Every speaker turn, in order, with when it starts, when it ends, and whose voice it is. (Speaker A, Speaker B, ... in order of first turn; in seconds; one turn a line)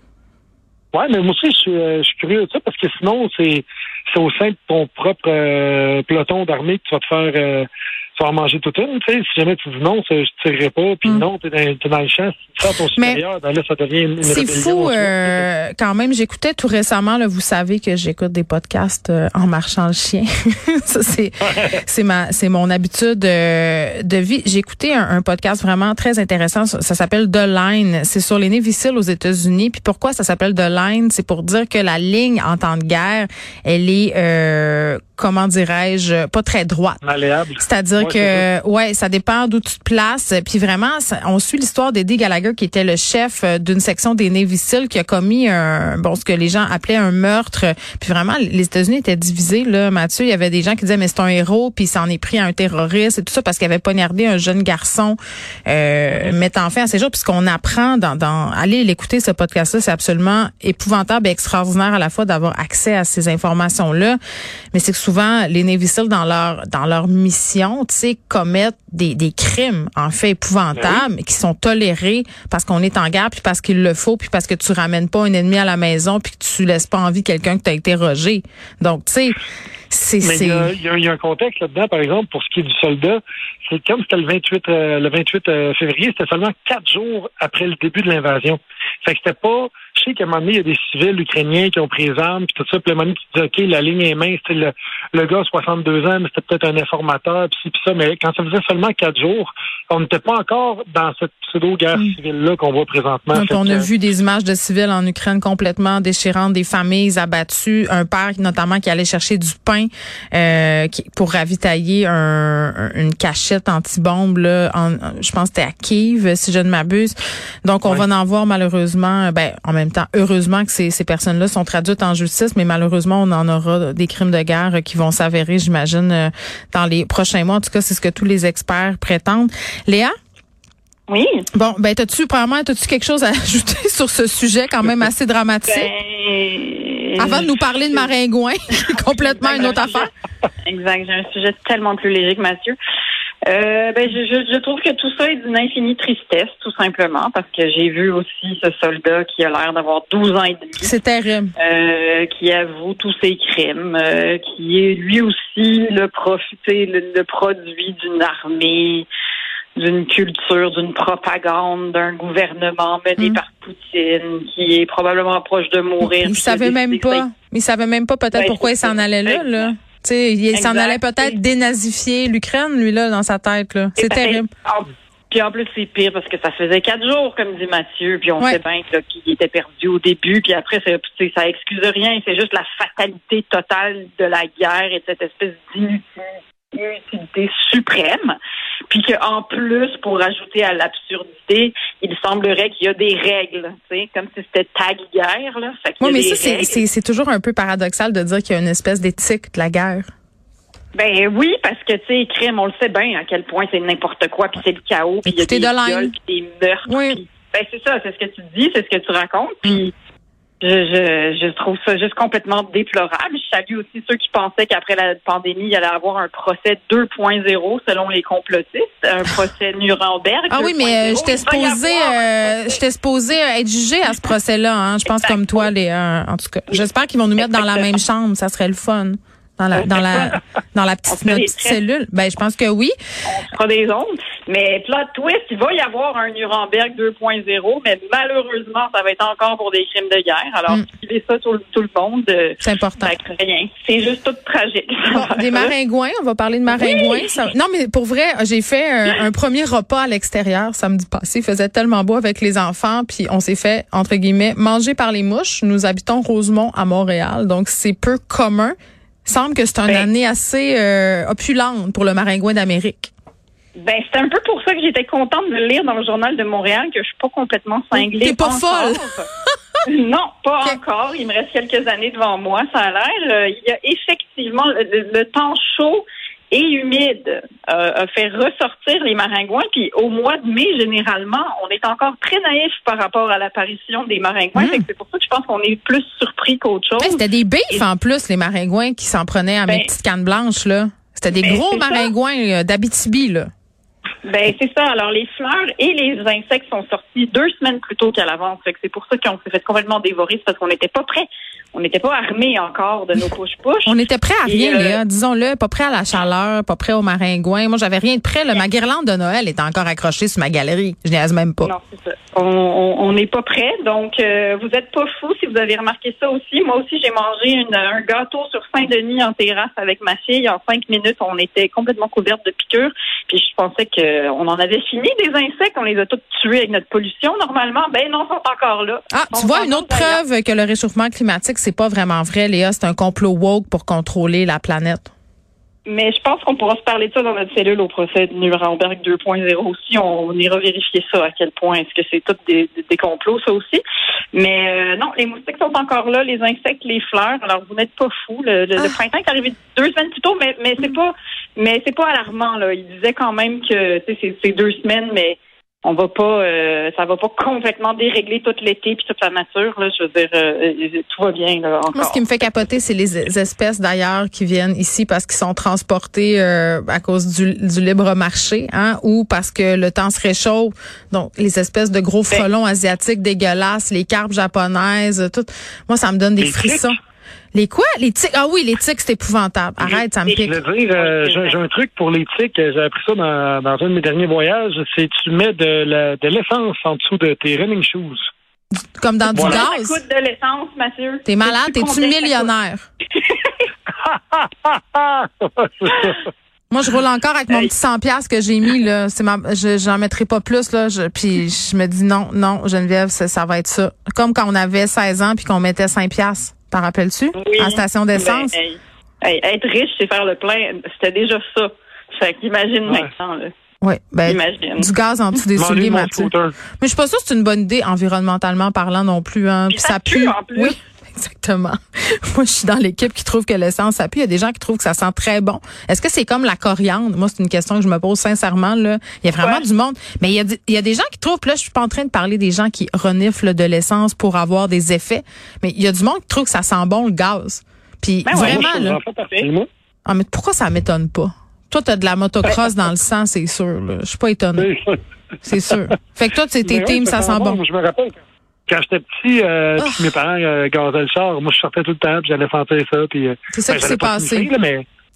Speaker A: 0.9-15.5
Speaker B: 13.0-13.2
Speaker B: 14.2-37.0
Speaker A: 37.0-38.5
Speaker B: 37.6-64.2
Speaker A: 56.1-56.4
Speaker B: 64.7-80.7
Speaker A: 70.8-71.0
Speaker A: 80.2-103.9
Speaker B: 103.3-130.1
Speaker C: 131.1-131.5
Speaker B: 131.5-135.9
Speaker C: 135.7-138.1
Speaker B: 137.2-140.1
Speaker C: 139.0-140.1
Speaker C: 140.6-142.8
Speaker C: 143.5-150.9
Speaker B: 150.8-151.5
Speaker C: 151.6-159.1
Speaker C: 159.8-167.3
Speaker B: 166.0-174.5
Speaker C: 168.3-169.7
Speaker C: 170.5-171.4
Speaker C: 174.0-188.3
Speaker C: 188.9-196.8
Speaker B: 196.0-200.1
Speaker C: 200.9-209.9
Speaker B: 205.2-206.1
Speaker B: 206.9-207.2
Speaker C: 210.6-222.8
Speaker B: 220.5-232.9
Speaker C: 225.1-225.7
Speaker C: 227.4-228.0
Speaker C: 229.7-230.3
Speaker C: 231.1-231.8
Speaker C: 233.3-245.7
Speaker B: 242.6-243.1
Speaker B: 245.1-258.8
Speaker C: 246.7-247.5
Speaker B: 259.3-263.1
Speaker C: 263.8-269.3
Speaker B: 268.0-269.1
Speaker C: 269.9-287.9
Speaker B: 284.6-284.9
Speaker B: 287.0-293.5
Speaker C: 291.3-292.1
Speaker C: 294.2-305.0
Speaker B: 303.9-311.7
Speaker C: 311.6-330.2
Speaker B: 329.1-335.1
Speaker C: 335.9-343.8
Speaker C: 344.3-362.3
Speaker B: 361.9-377.0
Speaker A: 376.4-376.9
Speaker B: 377.5-380.6
Speaker A: 379.9-388.2
Speaker C: 381.0-381.6
Speaker B: 389.0-390.0
Speaker C: 389.3-392.5
Speaker A: 389.4-389.6
Speaker B: 391.2-392.9
Speaker C: 393.2-393.6
Speaker A: 394.0-396.3
Speaker B: 396.7-408.5
Speaker C: 407.4-413.5
Speaker B: 413.8-439.0
Speaker C: 414.3-414.9
Speaker A: 415.6-416.6
Speaker C: 419.7-420.8
Speaker C: 429.4-429.7
Speaker C: 438.2-438.8
Speaker A: 438.4-439.7
Speaker B: 440.1-444.7
Speaker A: 444.6-445.0
Speaker B: 445.4-447.6
Speaker A: 446.6-454.9
Speaker B: 449.8-450.1
Speaker B: 453.5-454.5